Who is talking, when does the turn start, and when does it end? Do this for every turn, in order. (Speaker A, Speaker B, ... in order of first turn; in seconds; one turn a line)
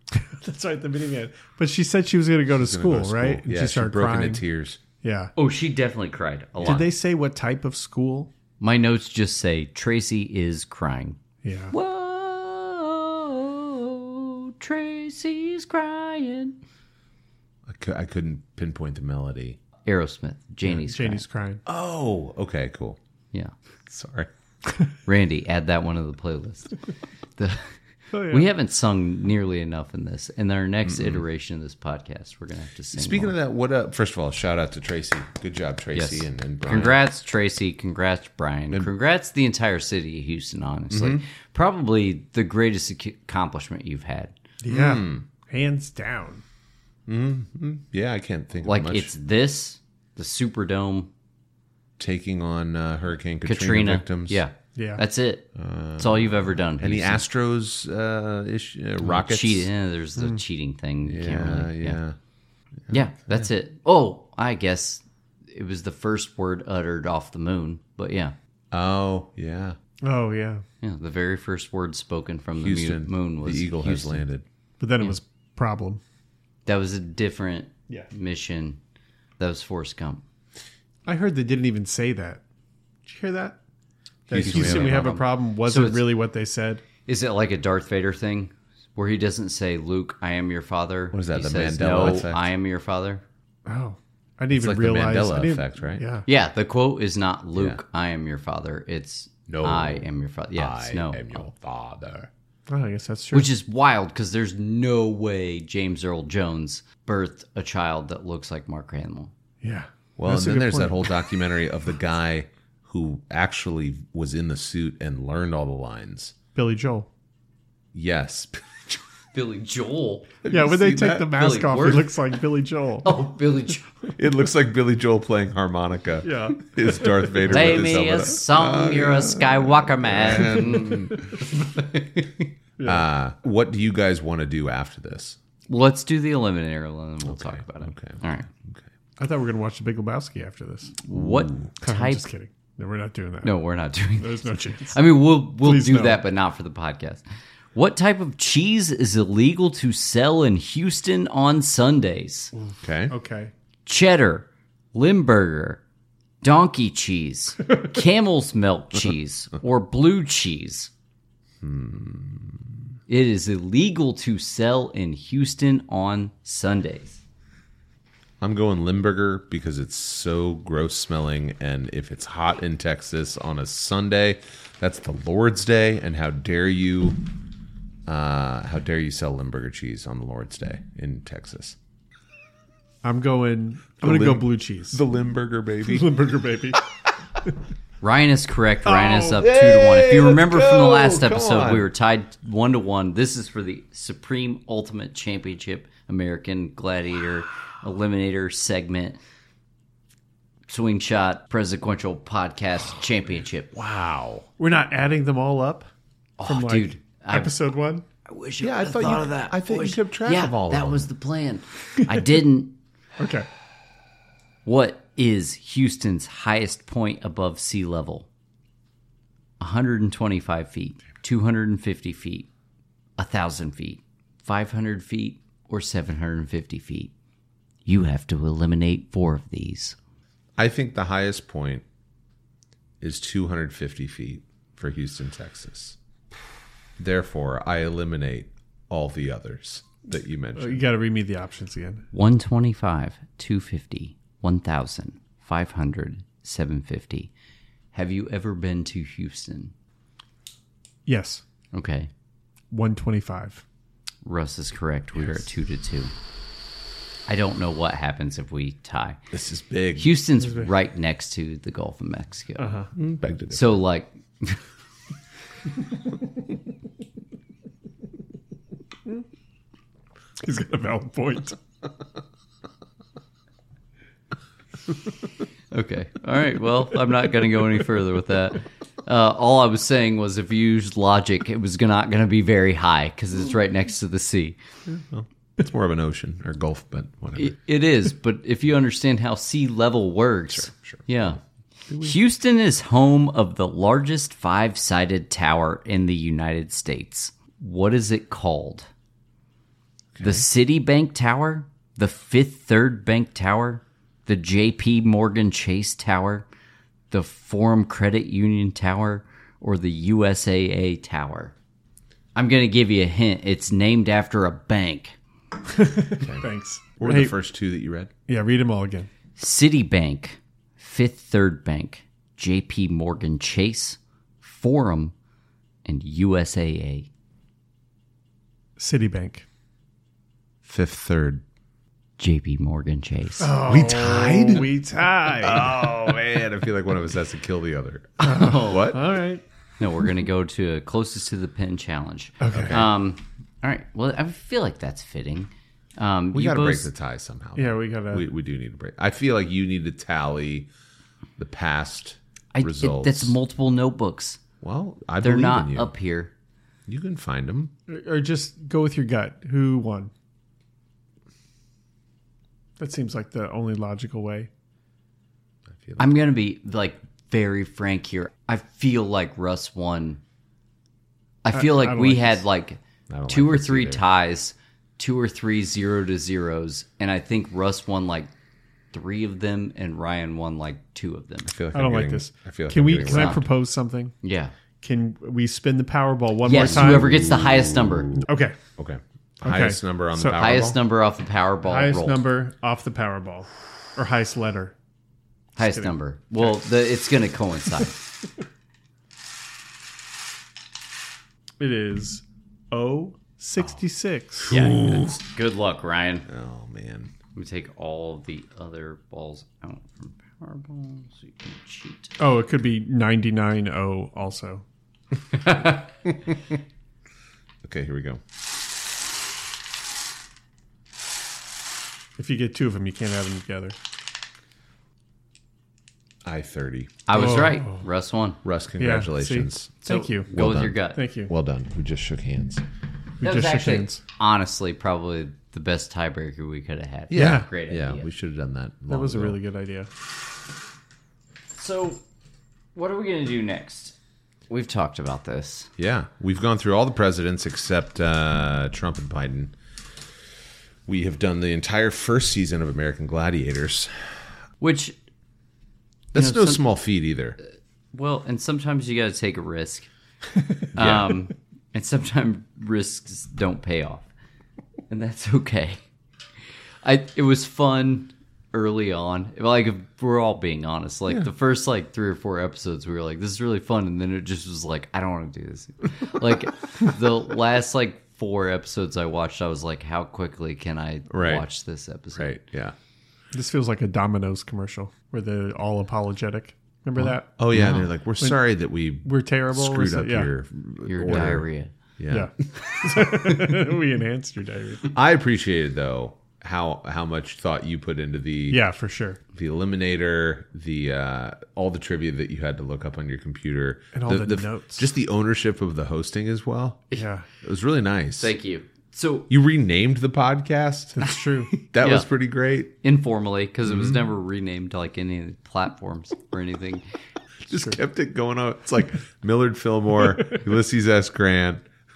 Speaker A: 0.2-4.4
Speaker B: 2.5-4.8
Speaker A: 5.0-5.3
Speaker C: 5.4-6.9
Speaker A: 6.6-8.3
Speaker C: 8.6-11.2
Speaker A: 11.4-11.7
Speaker C: 11.7-16.6
Speaker B: 17.7-19.6
Speaker C: 19.9-21.2
Speaker A: 20.7-21.6
Speaker B: 21.7-23.0
Speaker B: 23.9-24.3
Speaker C: 25.1-26.8
Speaker C: 27.4-33.4
Speaker A: 28.1-28.5
Speaker B: 30.9-31.2
Speaker B: 32.9-37.0
Speaker C: 35.9-44.4
Speaker B: 40.9-41.2
Speaker A: 44.6-46.4
Speaker B: 44.7-45.2
Speaker B: 47.1-49.1
Speaker C: 48.6-51.1
Speaker B: 52.0-54.4
Speaker C: 53.4-57.2
Speaker A: 54.8-55.0
Speaker B: 55.6-59.7
Speaker C: 59.0-62.0
Speaker B: 61.1-62.2
Speaker B: 62.9-63.4
Speaker C: 62.9-68.3
Speaker B: 68.7-69.8
Speaker A: 70.0-70.6
Speaker C: 70.8-74.2
Speaker B: 72.6-74.5
Speaker A: 74.8-76.0
Speaker C: 76.7-78.8
Speaker C: 79.4-80.2
Speaker A: 81.1-82.4
Speaker A: 83.1-83.6
Speaker A: 84.3-86.8
Speaker B: 84.3-85.0
Speaker C: 84.4-86.2
Speaker C: 87.1-93.2
Speaker B: 91.1-92.5
Speaker A: 93.7-96.3
Speaker B: 94.5-96.0
Speaker C: 96.3-101.5
Speaker B: 99.5-102.3
Speaker A: 102.7-103.5
Speaker C: 103.3-109.3
Speaker A: 109.6-111.1
Speaker B: 110.2-116.3
Speaker A: 116.5-117.1
Speaker B: 117.9-119.0
Speaker C: 119.3-120.5
Speaker B: 120.4-121.3
Speaker A: 120.5-123.1
Speaker C: 121.3-122.1
Speaker C: 123.0-123.9
Speaker B: 124.2-131.4
Speaker A: 126.2-127.2
Speaker C: 127.4-132.5
Speaker A: 130.4-130.8
Speaker A: 132.8-133.1
Speaker B: 132.8-135.4
Speaker C: 135.7-138.5
Speaker B: 137.3-138.9
Speaker A: 139.2-140.9
Speaker C: 141.0-142.2
Speaker B: 141.1-141.7
Speaker A: 141.8-143.6
Speaker C: 143.4-147.2
Speaker A: 144.2-145.0
Speaker A: 145.6-146.2
Speaker C: 147.8-152.5
Speaker A: 152.6-153.5
Speaker B: 152.8-153.1
Speaker C: 153.9-155.8
Speaker C: 156.4-160.9
Speaker B: 161.6-162.8
Speaker C: 163.1-167.2
Speaker B: 168.4-177.2
Speaker B: 178.1-181.8
Speaker A: 183.0-185.0
Speaker B: 184.0-186.1
Speaker A: 185.8-186.8
Speaker C: 188.0-199.2
Speaker A: 188.9-189.3
Speaker B: 189.3-191.9
Speaker C: 200.7-203.7
Speaker B: 203.7-204.5
Speaker A: 204.6-205.9
Speaker C: 206.4-207.6
Speaker A: 206.4-208.1
Speaker C: 208.3-212.8
Speaker B: 208.6-211.1
Speaker A: 213.2-213.5
Speaker C: 214.7-218.3
Speaker C: 219.6-222.5
Speaker C: 223.2-227.1
Speaker C: 227.8-230.0
Speaker B: 230.6-231.8
Speaker B: 233.0-236.0
Speaker B: 237.0-240.8
Speaker A: 240.6-242.1
Speaker C: 242.1-247.3
Speaker C: 247.9-249.7
Speaker A: 251.1-251.4
Speaker C: 251.7-252.1
Speaker A: 252.7-253.6
Speaker C: 254.2-256.1
Speaker C: 257.3-259.2
Speaker B: 259.3-260.1
Speaker C: 260.0-262.8
Speaker A: 262.6-262.9
Speaker B: 262.9-263.8
Speaker C: 263.5-264.6
Speaker A: 270.4-271.6
Speaker C: 275.7-284.6
Speaker B: 284.9-287.6
Speaker C: 287.4-291.4
Speaker B: 290.5-291.4
Speaker B: 291.9-292.2
Speaker C: 292.0-298.9
Speaker B: 300.1-300.4
Speaker C: 300.2-306.5
Speaker C: 307.1-311.5
Speaker C: 312.4-315.2
Speaker A: 315.7-317.4
Speaker B: 316.2-316.4
Speaker B: 317.0-318.1
Speaker A: 318.3-319.1
Speaker C: 319.4-325.1
Speaker C: 325.9-327.1
Speaker A: 328.8-329.5
Speaker B: 330.6-331.4
Speaker C: 332.2-333.6
Speaker A: 333.4-336.0
Speaker B: 333.6-334.7
Speaker B: 335.3-339.0
Speaker C: 338.2-339.0
Speaker A: 338.2-339.4
Speaker C: 339.8-346.9
Speaker A: 342.4-342.9
Speaker B: 342.5-342.9
Speaker B: 346.3-350.7
Speaker A: 347.6-348.3
Speaker B: 351.4-353.4
Speaker C: 352.5-354.4
Speaker B: 354.6-355.9
Speaker C: 355.2-356.3
Speaker B: 356.9-357.7
Speaker A: 357.9-360.1
Speaker A: 362.8-364.5
Speaker B: 365.7-366.1
Speaker C: 366.0-370.2
Speaker C: 371.4-378.3
Speaker A: 371.5-372.4
Speaker B: 373.1-374.1
Speaker C: 378.9-381.5
Speaker B: 381.5-383.5
Speaker A: 381.7-384.1
Speaker C: 383.0-383.4
Speaker C: 384.2-384.5
Speaker A: 384.8-387.2
Speaker C: 386.4-388.2
Speaker B: 386.5-390.8
Speaker A: 388.2-388.6
Speaker A: 389.4-390.4
Speaker C: 390.3-392.2
Speaker A: 391.6-394.7
Speaker C: 395.6-398.0
Speaker A: 395.6-395.9
Speaker A: 401.6-404.5
Speaker B: 404.4-405.2
Speaker C: 404.5-406.3
Speaker B: 406.3-407.1
Speaker C: 407.3-412.2
Speaker A: 412.2-414.6
Speaker C: 415.3-415.9
Speaker B: 417.6-418.2
Speaker A: 422.2-423.8
Speaker B: 426.2-427.2
Speaker C: 427.1-428.4
Speaker A: 427.1-427.8
Speaker B: 428.4-429.7
Speaker A: 428.8-431.3
Speaker C: 429.9-431.0
Speaker B: 430.3-432.6
Speaker A: 433.2-434.0
Speaker C: 433.2-438.1
Speaker B: 437.1-439.4
Speaker A: 437.1-437.5
Speaker A: 438.9-439.9
Speaker C: 441.6-442.0
Speaker C: 442.8-444.0
Speaker C: 444.5-445.7
Speaker B: 445.8-449.6
Speaker B: 450.9-454.3
Speaker C: 454.6-455.0
Speaker C: 456.1-456.6
Speaker B: 456.1-457.4
Speaker C: 457.9-459.9
Speaker C: 460.7-464.1
Speaker B: 460.8-461.2
Speaker C: 464.9-465.8
Speaker C: 466.8-482.3
Speaker B: 481.1-481.5
Speaker B: 482.2-482.8
Speaker A: 483.3-488.4
Speaker B: 487.4-491.5
Speaker C: 487.5-487.8
Speaker A: 489.0-490.3
Speaker C: 490.9-491.7
Speaker B: 492.0-493.4
Speaker A: 492.1-494.9
Speaker B: 494.9-498.6
Speaker A: 498.5-499.2
Speaker B: 499.3-506.8
Speaker A: 503.9-504.9
Speaker A: 507.0-507.3
Speaker B: 507.4-508.3
Speaker C: 508.2-509.3
Speaker B: 509.3-511.1
Speaker A: 511.0-511.5
Speaker C: 511.6-512.1
Speaker B: 511.7-512.7
Speaker C: 512.8-516.8
Speaker B: 513.7-514.1
Speaker B: 517.5-521.7